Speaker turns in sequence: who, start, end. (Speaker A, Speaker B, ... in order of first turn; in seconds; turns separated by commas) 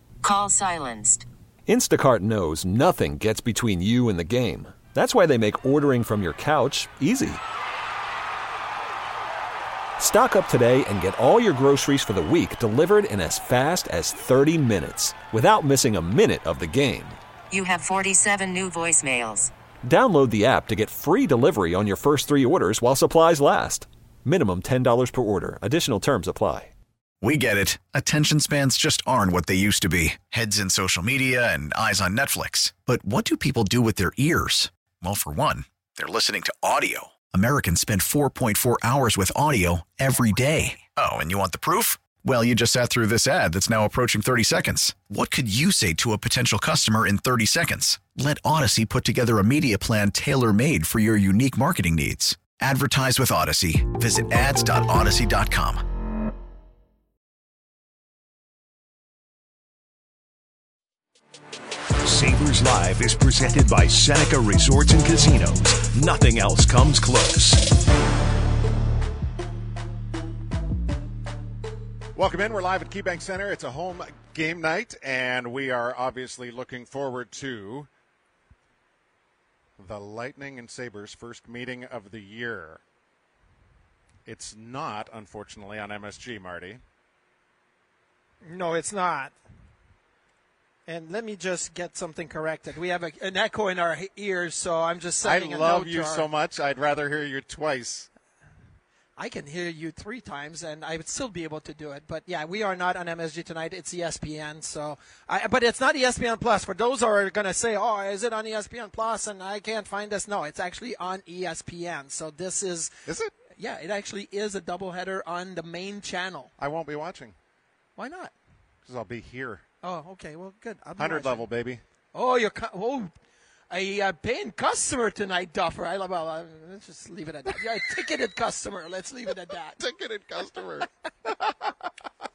Speaker A: 0.2-1.3, Speaker B: 1.7-7.4, Speaker B: 10.0-17.2, Speaker A: 17.5-19.5, Speaker B: 19.8-26.7, Speaker C: 27.2-55.8, Speaker D: 62.0-67.7, Speaker E: 72.1-77.9, Speaker E: 79.8-82.8, Speaker E: 84.2-86.8, Speaker F: 88.4-89.3, Speaker F: 90.9-96.2, Speaker E: 95.2-98.1, Speaker F: 99.2-112.9, Speaker E: 113.0-113.3, Speaker F: 113.6-116.5, Speaker E: 116.6-117.3, Speaker F: 118.0-118.3, Speaker E: 118.8-119.6, Speaker F: 119.8-121.5, Speaker E: 121.0-121.8, Speaker F: 122.1-123.1, Speaker F: 123.7-129.8, Speaker E: 129.8-131.7